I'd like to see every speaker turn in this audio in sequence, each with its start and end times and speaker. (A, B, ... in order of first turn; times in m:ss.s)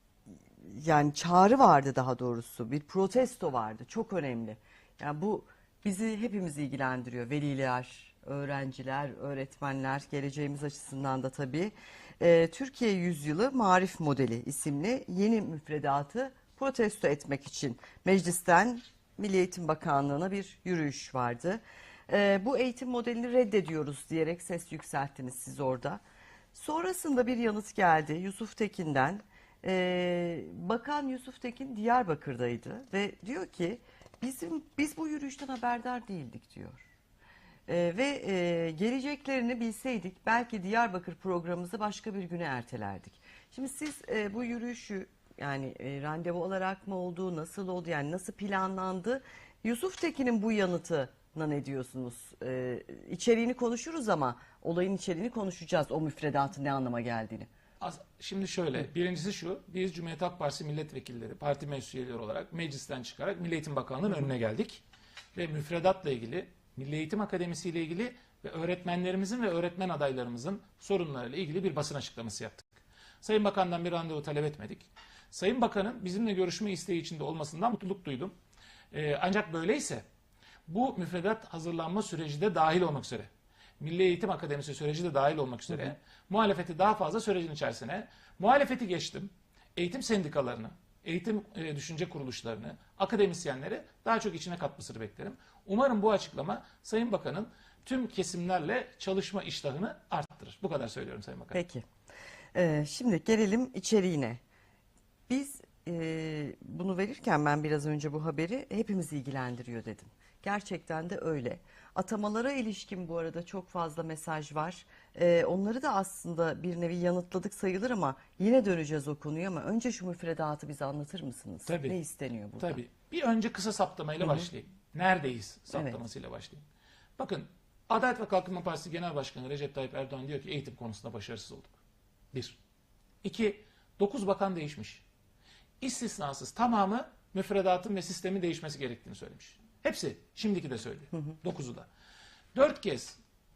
0:00.6-0:26.0 A
0:26.5-0:36.8 A
0:37.7-0:57.5 A
0:57.8-1:04.8 B
1:05.3-1:18.3 B
1:18.9-1:20.0 B
1:20.7-1:41.6 B
1:41.5-1:41.8 A
1:42.5-1:44.4 A
1:45.3-2:02.8 A
2:01.6-2:02.0 B
2:02.6-2:06.6 B
2:04.2-2:04.5 A
2:05.7-2:06.0 A
2:07.2-2:11.8 B
2:13.2-2:15.0 B
2:15.8-2:21.9 B
2:22.5-2:23.2 B